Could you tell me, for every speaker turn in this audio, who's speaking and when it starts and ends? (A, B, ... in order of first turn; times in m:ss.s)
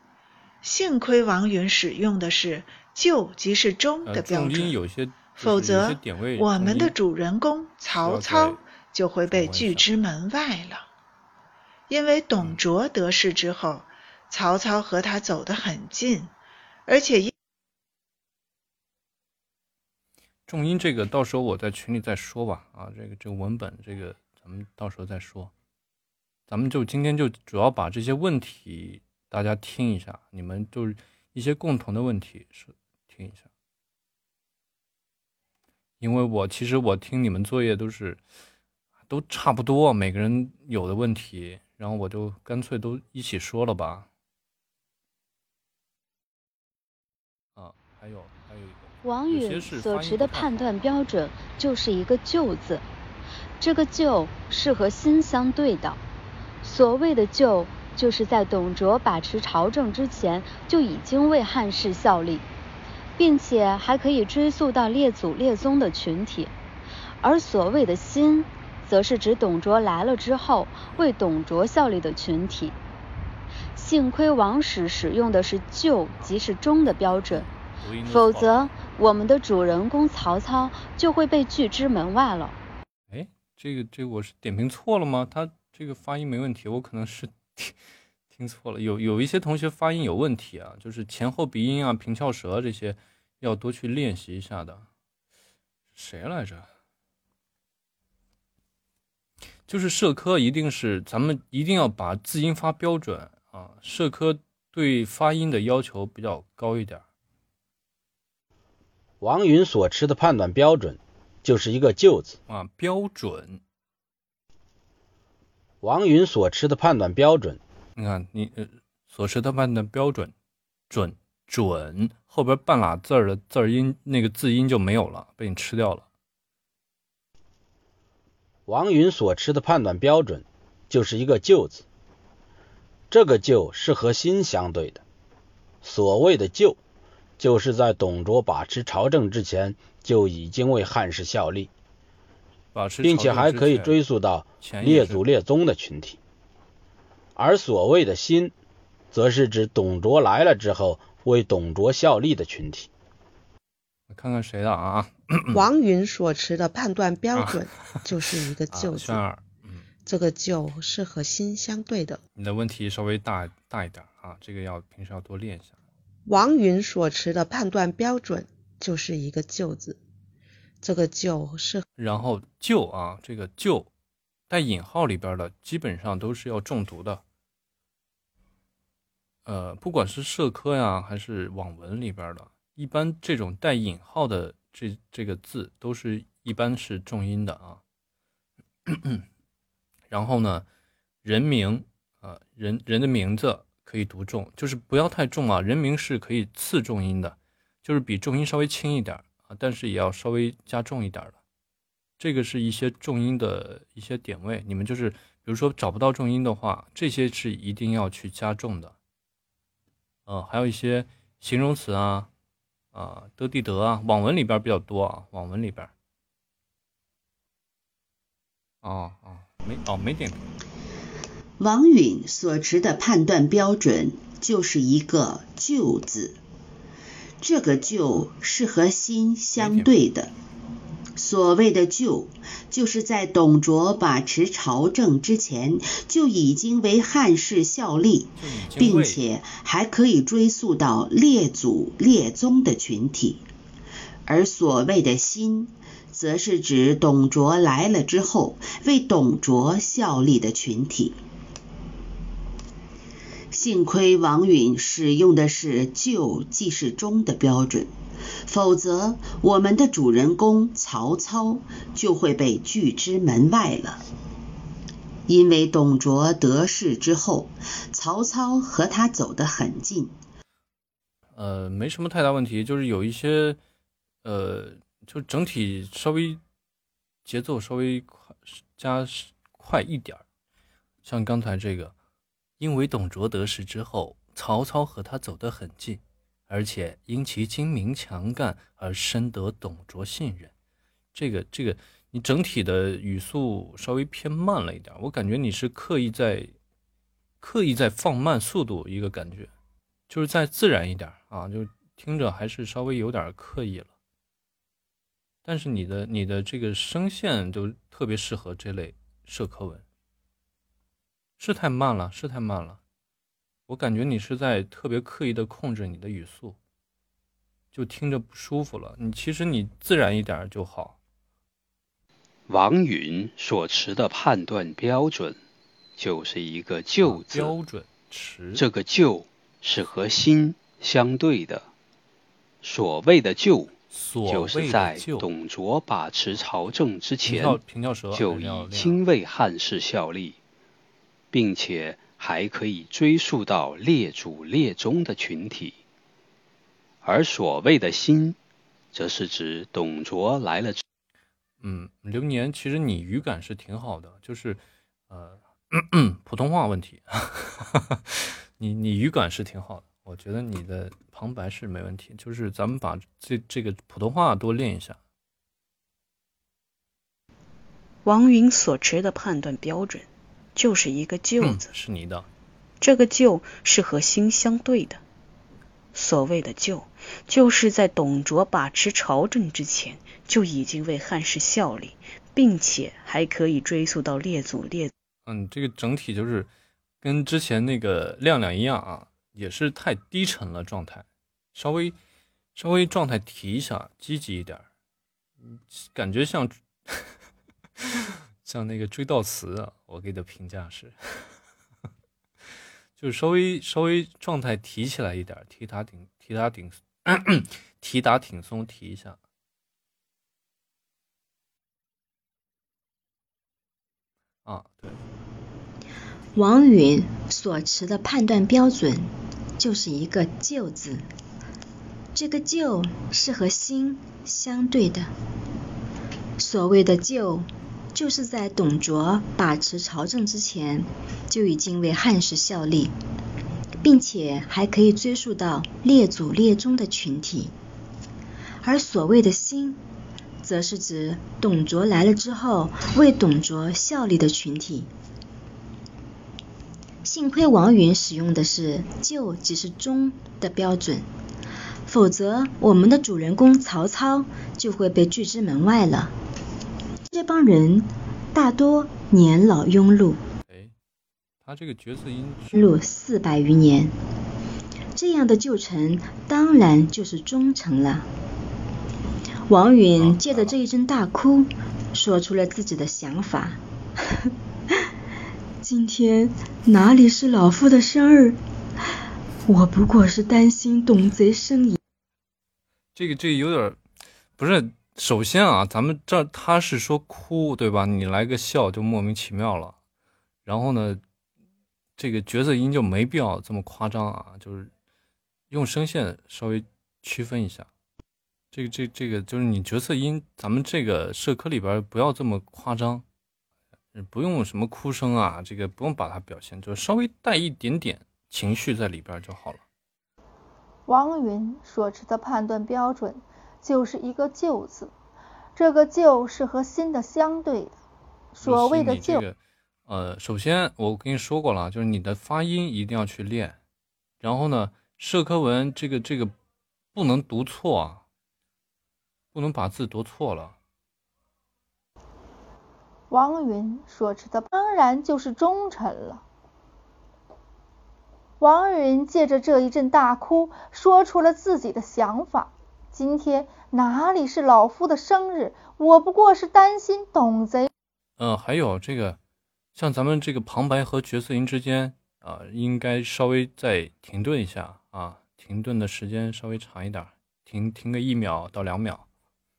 0:00.6-0:10.9 A
0:04.1-0:07.0 B
0:07.9-0:08.6 B
0:09.3-0:09.9 B
0:11.9-0:16.3 A
0:16.9-0:17.3 A
0:20.5-0:25.5 B
0:26.5-0:33.5 B
0:36.0-0:38.2 B
0:39.1-0:44.1 B
0:47.6-0:50.8 B
0:49.0-0:52.9 C
0:53.6-0:56.0 C
0:56.6-1:02.5 C
1:03.2-1:06.6 C
1:07.2-1:12.8 C
1:13.7-1:17.5 C
1:17.8-1:18.7 B
1:18.1-1:22.6 C
1:23.1-1:27.8 B
1:28.3-1:34.9 B
1:36.0-1:36.7 B
1:39.7-1:47.0 B
1:49.2-1:52.4 D
1:52.5-1:53.6 B
1:55.8-1:57.6 D
1:58.0-2:00.3 B
2:00.9-2:06.1 B
2:08.7-2:11.8 D
2:13.1-2:15.0 D
2:15.8-2:16.8 D
2:17.4-2:21.7 D
2:22.7-2:24.0 B
2:23.0-2:26.2 D
2:24.6-2:25.2 B
2:27.4-2:28.6 D
2:29.1-2:32.9 D
2:34.1-2:35.6 B
2:35.5-2:39.2 E
2:37.4-2:37.6 B
2:38.7-2:39.9 B
2:40.1-2:42.2 E
2:42.4-2:45.8 B
2:46.3-2:50.0 E
2:50.8-2:51.8 E
2:52.0-2:53.9 B
2:54.5-2:57.2 B
2:59.5-3:07.8 B
3:08.9-3:09.2 B
3:10.1-3:10.7 B
3:11.2-3:21.4 B
3:22.2-3:29.0 B
3:30.3-3:32.3 B
3:32.9-3:35.9 B
3:38.8-3:40.4 B
3:41.6-3:46.4 F
3:47.4-3:50.3 F
3:49.6-3:50.0 B
3:51.2-4:03.4 F
3:58.4-3:59.2 B
4:04.3-4:11.2 F
4:13.5-4:17.9 F
4:18.5-4:24.0 F
4:25.3-4:30.2 F
4:31.4-4:33.6 B
4:34.2-4:36.4 B
4:37.2-4:40.2 B
4:41.0-4:41.9 B
4:42.6-4:50.5 B
4:51.1-4:56.5 B
4:57.4-4:59.5 B
5:00.1-5:03.9 B
5:05.4-5:09.8 B
5:11.4-5:12.8 B
5:13.7-5:16.6 B
5:17.7-5:21.0 B
5:22.5-5:25.4 G
5:26.0-5:27.6 G
5:27.0-5:28.6 B
5:28.5-5:31.7 G
5:32.6-5:33.7 G
5:33.9-5:35.3 B
5:34.3-5:37.6 G
5:37.2-5:39.0 B
5:38.1-5:40.4 G
5:41.3-5:45.8 G
5:47.0-5:48.4 G
5:48.9-5:50.8 G
5:51.6-6:05.0 B
6:08.0-6:11.8 H
6:11.4-6:12.3 B
6:12.8-6:15.0 H
6:15.9-6:24.9 H
6:25.3-6:26.5 B
6:27.0-6:32.0 B
6:32.6-6:34.7 B
6:35.4-6:37.1 B
6:37.8-6:41.3 B
6:43.0-6:49.2 B
6:54.4-6:55.0 B
6:56.4-7:01.1 I
7:02.1-7:05.1 I
7:06.4-7:12.9 I
7:13.8-7:17.5 I
7:18.6-7:19.8 I
7:20.4-7:24.9 I
7:27.0-7:31.1 I
7:31.9-7:36.1 I
7:37.1-7:40.2 I
7:40.4-7:40.7 B
7:41.4-7:42.6 B
7:42.5-7:43.9 I
7:45.0-7:48.1 I
7:49.5-7:53.6 I
7:50.0-7:50.6 B
7:55.6-7:58.4 I
7:59.5-8:01.8 I
8:03.0-8:03.8 B
8:04.4-8:09.8 B
8:10.4-8:11.0 B
8:12.0-8:14.7 B
8:15.5-8:17.7 B
8:18.5-8:23.0 B
8:23.9-8:29.6 B
8:30.9-8:34.9 J
8:35.6-8:37.8 J
8:38.4-8:39.2 J
8:38.4-8:43.6 B
8:44.2-8:46.3 B
8:46.9-8:48.0 B
8:49.3-8:50.6 B
8:53.1-8:56.2 J
8:58.4-9:07.7 J
9:08.2-9:09.2 B
9:09.8-9:19.0 B